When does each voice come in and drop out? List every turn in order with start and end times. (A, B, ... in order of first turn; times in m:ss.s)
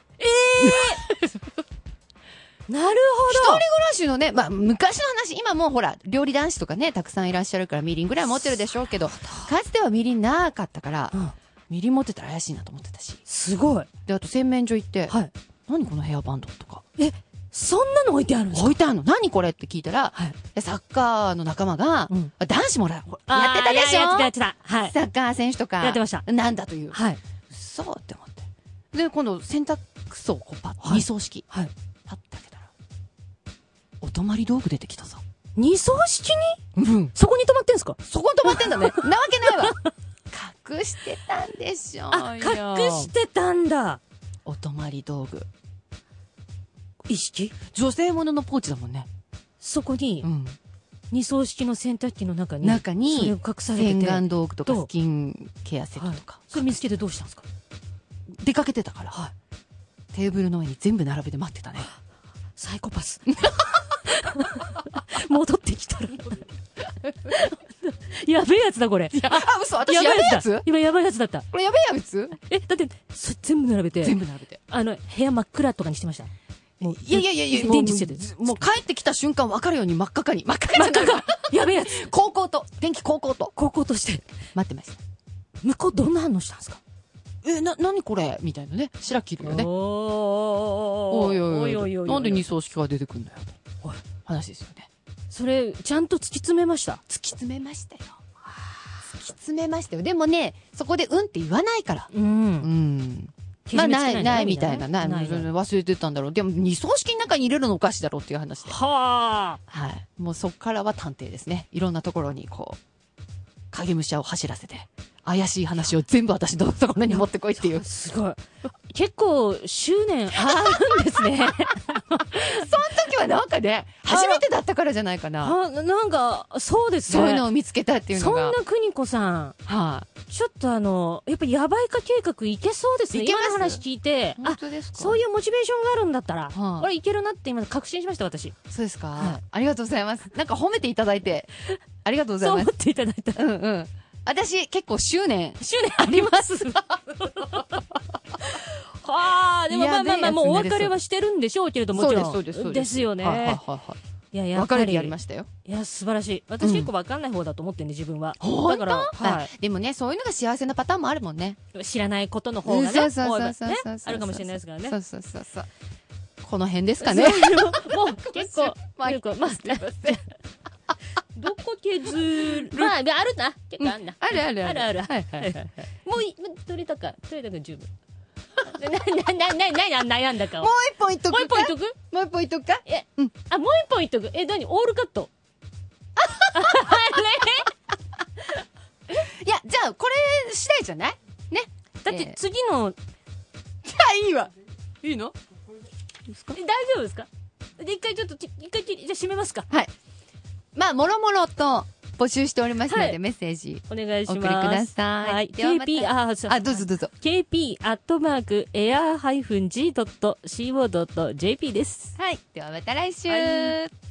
0:00.2-0:01.0 A
0:00.6-0:01.4 B
0:02.7-0:03.6 A
0:03.3-0:11.2 B
0:09.1-0:09.5 A
0:11.7-0:13.2 B
0:13.2-0:13.9 A
0:14.0-0:15.2 B
0:15.1-0:15.3 A
0:15.7-0:16.8 B
0:17.0-0:18.8 A
0:18.5-0:24.3 B
0:23.3-0:24.9 A
0:24.8-0:31.4 B
0:25.8-0:26.2 A
0:26.9-0:27.2 A
0:30.8-0:31.7 A
0:32.1-0:32.7 B
0:34.0-0:35.2 B
0:35.6-0:36.6 A
0:36.8-0:37.1 B
0:37.1-0:39.0 A
0:38.0-0:39.8 B
0:40.3-0:43.1 B
0:42.1-0:44.0 A
0:44.4-0:45.5 B
0:47.1-0:47.5 A
0:47.7-0:49.1 B
0:49.6-0:50.3 A
0:50.2-0:50.6 B
0:51.1-0:54.9 A
0:52.6-0:56.8 B
0:56.0-0:57.4 A
0:58.4-0:59.2 B
1:00.1-1:01.9 B
1:02.6-1:03.3 A
1:03.3-1:03.9 B
1:04.0-1:06.5 A
1:07.2-1:11.4 A
1:09.1-1:10.6 B
1:11.5-1:12.4 B
1:12.4-1:16.3 A
1:14.0-1:14.6 B
1:16.8-1:23.5 B
1:16.8-1:18.6 A
1:20.7-1:22.1 A
1:23.5-1:24.3 A
1:24.5-1:25.0 B
1:25.6-1:26.8 A
1:27.4-1:29.7 B
1:29.4-1:32.4 A
1:31.1-1:33.6 B
1:34.2-1:34.9 B
1:35.3-1:37.0 A
1:37.1-1:38.2 B
1:39.0-1:48.8 B
1:42.1-1:42.7 A
1:43.7-1:45.5 A
1:48.6-1:49.6 A
1:49.7-1:52.8 B
1:53.7-1:57.8 B
1:57.1-2:02.7 A
2:00.3-2:05.6 B
2:04.0-2:04.4 A
2:05.4-2:07.4 A
2:07.1-2:08.6 B
2:08.1-2:09.6 A
2:09.6-2:10.1 B
2:10.2-2:18.5 A
2:13.1-2:13.8 B
2:14.4-2:15.2 B
2:16.5-2:16.9 B
2:18.7-2:21.5 B
2:22.0-2:22.7 B
2:22.4-2:23.4 A
2:23.3-2:28.0 B
2:25.6-2:27.8 A
2:28.4-2:33.6 A
2:29.7-2:31.0 B
2:31.9-2:34.0 B
2:34.3-2:39.5 A
2:34.5-2:35.5 B
2:36.6-2:36.9 B
2:38.4-2:41.6 B
2:41.7-2:45.0 A
2:42.6-2:45.7 B
2:46.4-2:50.2 B
2:47.0-2:50.2 A
2:51.3-2:57.9 A
2:52.3-2:52.9 B
2:53.8-2:55.6 B
2:58.7-3:00.7 A
3:00.6-3:03.3 B
3:01.3-3:02.0 A
3:02.8-3:05.3 A
3:06.2-3:07.1 B
3:06.5-3:07.7 A
3:09.1-3:12.4 B
3:12.0-3:13.0 A
3:13.8-3:14.5 B
3:15.0-3:15.3 B
3:16.3-3:16.6 B
3:16.5-3:19.7 A
3:20.7-3:27.1 B
3:22.9-3:23.2 A
3:23.9-3:32.2 A
3:32.2-3:33.9 B
3:33.3-3:33.8 A